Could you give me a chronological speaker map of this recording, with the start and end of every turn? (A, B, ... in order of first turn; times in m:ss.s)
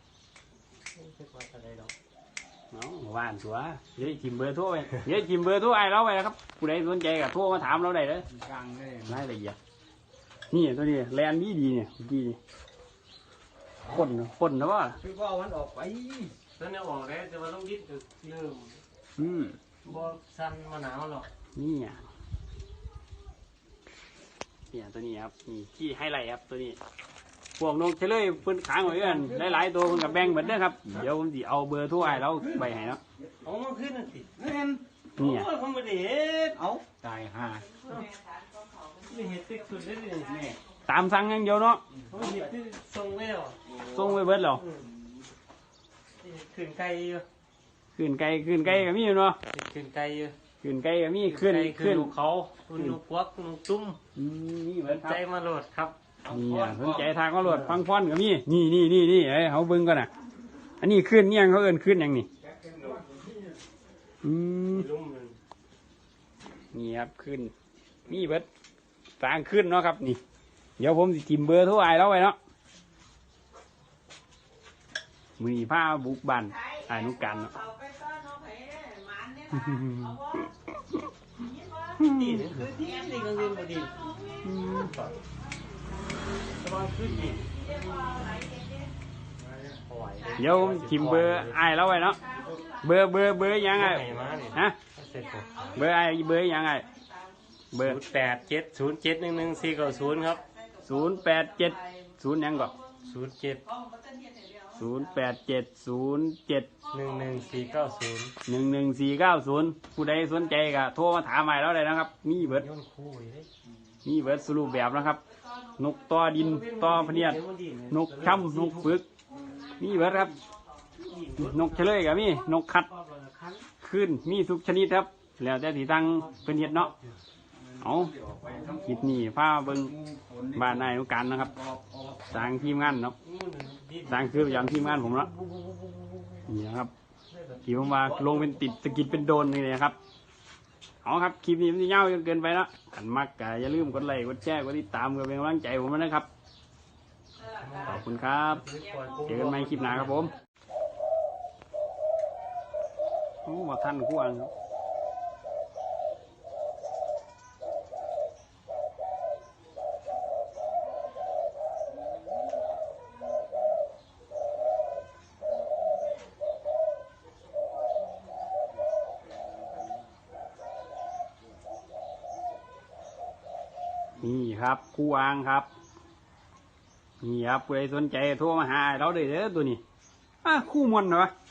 0:00.9-0:01.9 A
0:02.7-0:08.3 B
0:08.4-0:09.2 C
0:09.0-0:09.6 B
0:10.5-0:12.4 B
0:13.9-0:15.0 B
0:15.0-0:16.3 C
0:16.6-0:18.8 A
0:19.2-0:19.6 B
0:19.8-0:21.3 A
0:21.6-0:22.0 B
0:24.7-0:26.8 B
0:27.6-0:33.0 B
0:33.4-0:34.3 A
0:34.4-0:34.8 C
0:35.2-0:36.6 A
0:35.2-0:35.5 B
0:36.6-0:37.7 C
0:39.0-0:40.6 A
0:40.9-0:41.8 B
0:42.1-0:43.6 A
0:43.8-0:44.6 B
0:44.5-0:44.9 A
0:46.2-0:47.2 A
0:48.0-0:49.4 B
0:49.5-0:50.3 A
0:50.6-0:52.1 B
0:51.3-0:54.0 A
0:54.2-0:55.2 B
0:54.9-0:56.0 A
0:56.3-0:57.1 C
0:56.3-1:00.1 B
0:57.4-0:57.8 A
1:00.8-1:02.3 B
1:02.5-1:03.6 C
1:04.2-1:04.9 B
1:04.7-1:05.4 A
1:06.7-1:07.5 B
1:08.1-1:08.5 B
1:09.2-1:10.2 B
1:10.8-1:12.4 B
1:15.4-1:17.7 B
1:17.8-1:19.4 C
1:19.4-1:21.0 B
1:22.0-1:24.1 A
1:22.1-1:22.7 B
1:24.4-1:24.9 B
1:24.7-1:25.2 A
1:26.6-1:28.6 A
1:27.1-1:27.4 B
1:29.9-1:31.6 A
1:30.4-1:34.8 B
1:32.4-1:32.7 C
1:33.7-1:35.7 A
1:35.6-1:36.9 B
1:37.7-1:38.0 B
1:37.8-1:40.4 A
1:40.8-1:42.8 B
1:43.0-1:43.7 A
1:44.1-1:44.5 C
1:44.6-1:46.7 B
1:46.9-1:48.4 A
1:48.5-1:52.7 B
1:52.4-1:53.5 A
1:54.0-1:55.2 B
1:55.8-1:59.1 B
1:56.3-1:59.0 A
1:59.8-2:00.4 B
2:01.0-2:02.2 A
2:01.4-2:02.9 B
2:02.8-2:03.7 A
2:03.8-2:06.9 B
2:06.8-2:07.0 A
2:07.7-2:09.0 C
2:07.8-2:10.0 B
2:09.8-2:10.9 C
2:10.5-2:11.6 B
2:11.4-2:12.4 C
2:12.3-2:13.2 B
2:13.2-2:16.5 A
2:14.1-2:15.3 B
2:16.5-2:16.9 B
2:17.3-2:17.9 A
2:17.6-2:20.0 B
2:21.0-2:26.3 B
2:27.4-2:30.3 A
2:27.8-2:28.7 B
2:29.2-2:30.3 B
2:33.4-2:34.5 B
2:54.2-2:55.7 B
2:57.2-2:59.8 B
3:00.4-3:01.3 B